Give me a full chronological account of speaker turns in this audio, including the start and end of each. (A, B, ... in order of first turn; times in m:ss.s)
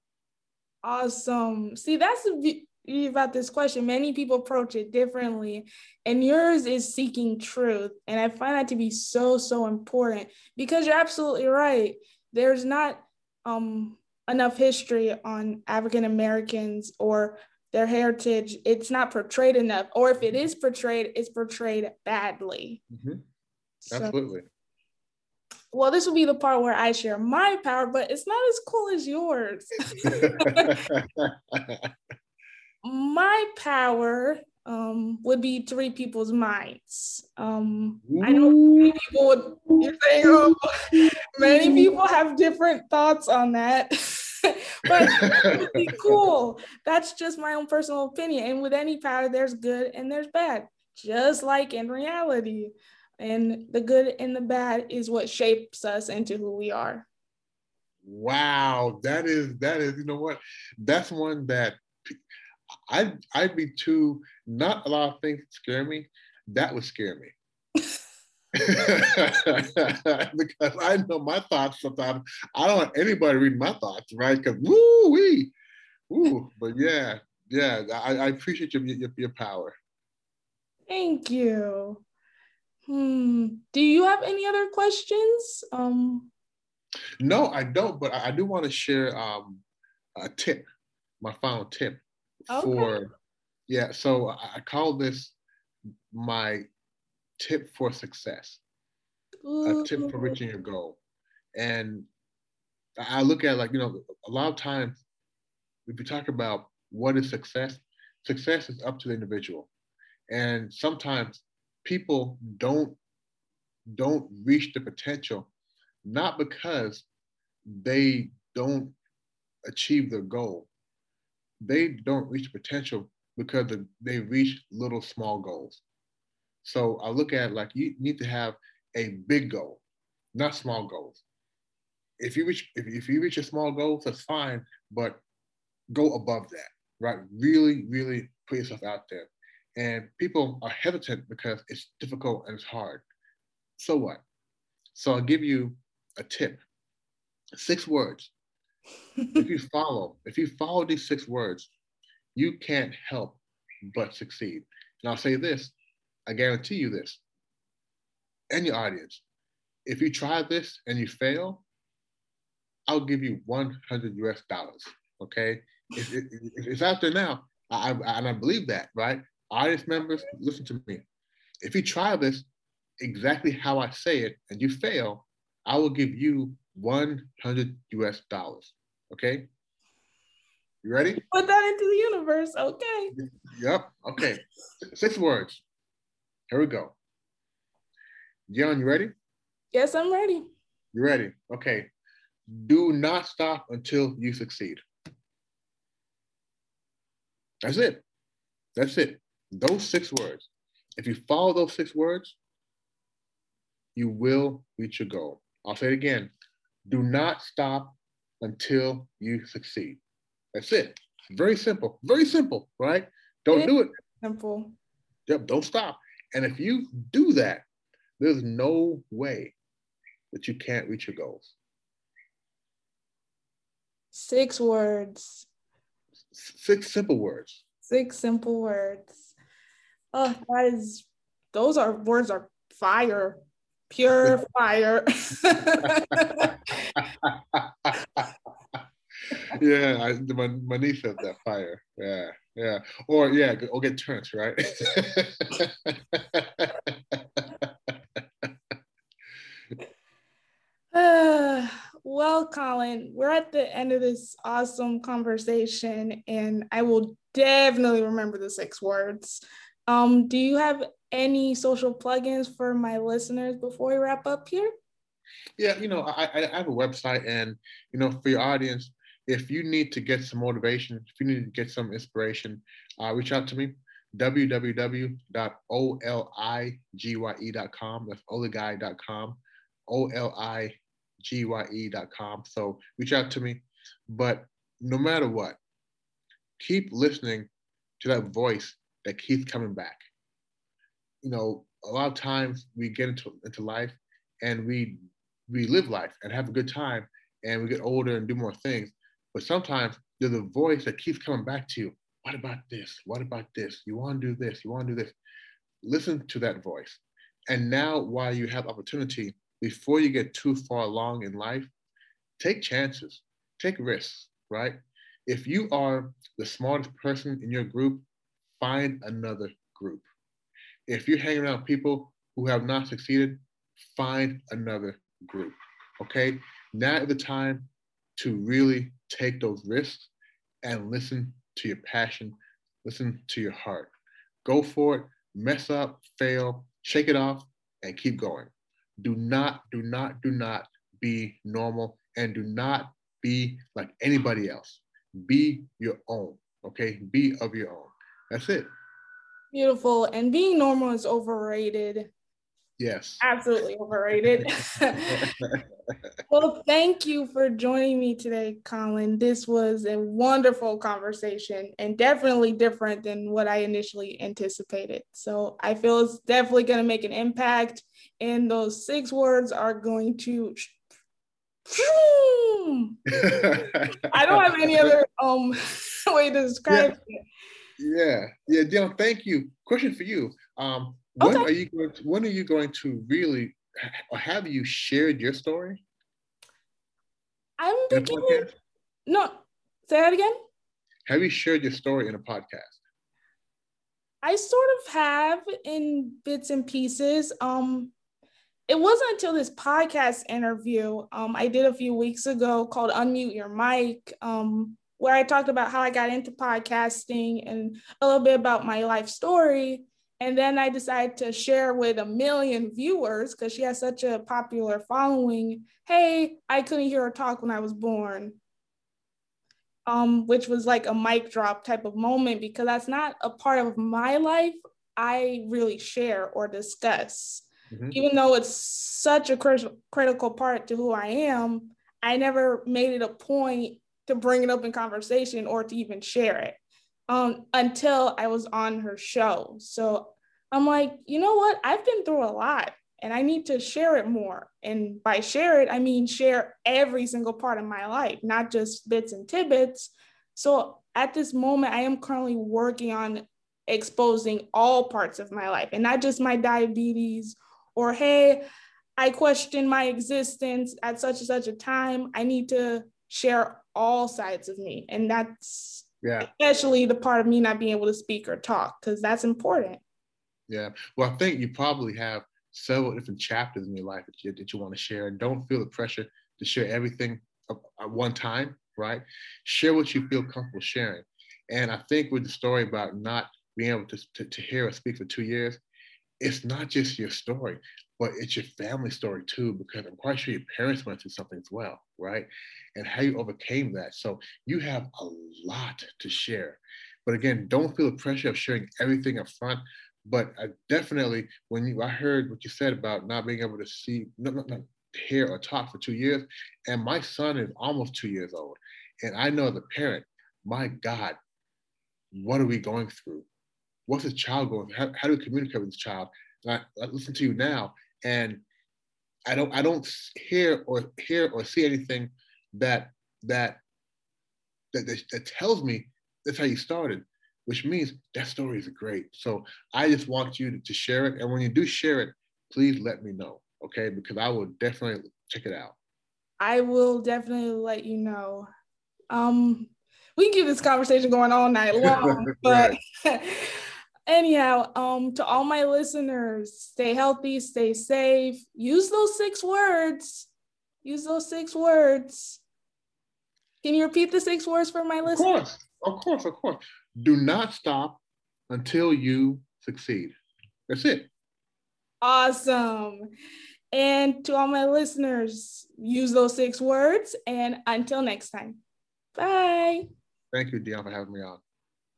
0:00.8-0:22.8 A
0:22.9-0:23.2 B
0:23.8-0:24.2 A
0:23.9-0:24.4 B
0:25.7-0:30.9 A
0:30.0-0:31.9 B
0:32.8-0:57.0 A
0:38.1-0:39.0 B
0:40.2-0:41.9 B
0:45.0-0:46.2 B
0:58.0-1:02.2 B
1:02.9-1:07.3 B
1:08.6-1:15.5 B
1:08.7-1:09.3 A
1:16.1-1:19.7 B
1:20.9-1:22.0 A
1:22.9-1:26.3 A
1:27.2-1:29.6 B
1:30.2-1:30.6 B
1:31.2-1:33.1 B
1:32.5-1:33.0 A
1:33.7-1:35.4 B
1:36.1-1:36.7 B
1:37.4-1:38.6 B
1:39.4-1:40.4 A
1:39.6-1:41.0 B
1:41.6-1:42.1 B
1:43.0-1:45.0 B
1:45.9-1:49.7 B
1:50.3-1:53.0 B
1:53.9-1:55.5 B
1:56.0-1:57.1 B
1:57.6-1:58.9 B
1:59.7-2:00.7 B
2:01.6-2:05.8 B
2:06.6-2:09.8 B
2:10.3-2:11.2 B
2:12.2-2:15.2 B
2:15.9-2:23.0 B
2:23.8-2:24.2 B
2:24.9-2:26.6 B
2:27.6-2:28.3 B
2:29.3-2:31.7 B
2:32.3-2:33.4 B
2:33.9-2:35.7 B
2:36.3-2:37.2 B
2:38.5-2:39.2 B
2:39.8-2:41.6 B
2:42.9-2:51.0 B
2:51.6-2:52.4 B
2:53.0-2:59.5 B
3:00.8-3:01.2 B
3:01.2-3:03.1 A
3:03.2-3:05.6 B
3:06.5-3:07.0 B
3:08.5-3:09.1 B
3:09.7-3:10.5 A
3:10.9-3:11.9 B
3:12.5-3:14.8 B
3:17.6-3:18.0 B
3:18.8-3:22.4 B
3:24.0-3:26.3 B
3:26.9-3:30.0 B
3:30.5-3:33.9 B
3:33.5-3:34.8 A
3:35.3-3:37.6 B
3:38.2-3:39.5 B
3:40.3-3:41.5 B
3:44.1-3:45.5 A
3:46.3-3:47.6 B
3:47.9-3:49.2 A
3:50.1-3:57.0 A
3:56.4-3:58.3 B
3:59.5-4:08.5 B
4:10.9-4:24.7 A
4:25.6-4:45.6 B
4:46.6-4:50.0 B
4:51.2-5:05.2 B
5:05.8-5:11.7 B
5:12.4-5:18.0 B
5:18.6-5:20.0 B
5:20.9-5:30.1 B
5:30.6-5:33.9 B
5:34.4-5:48.7 B
5:49.5-5:52.1 A
5:52.8-5:53.2 B
5:53.2-5:55.3 A
5:55.1-5:56.0 B
5:56.3-6:10.8 A
6:11.7-6:17.2 A
6:13.1-6:14.9 B
6:16.7-6:16.9 B
6:17.8-6:25.8 B
6:21.2-6:21.5 A
6:27.6-6:28.5 A
6:27.9-6:28.5 B
6:29.1-6:30.4 A
6:31.1-6:32.8 B
6:34.2-6:37.9 A
6:38.7-6:58.4 A
6:59.9-7:16.6 A
7:07.7-7:08.0 B
7:17.1-7:38.4 A
7:39.0-7:49.8 A
7:46.0-7:46.3 B
7:50.5-8:05.6 B
8:06.2-8:31.2 B
8:32.1-8:33.3 B
8:33.9-8:38.4 B
8:39.3-8:43.6 B
8:44.7-8:55.7 B
8:56.4-8:58.5 A
8:59.1-9:10.3 A
9:01.8-9:02.8 B
9:10.8-9:12.4 A
9:13.6-9:15.4 A
9:15.0-9:20.1 B
9:20.7-9:21.1 B
9:22.0-9:23.1 A
9:23.7-9:28.6 A
9:29.1-9:29.8 A
9:30.3-9:31.4 B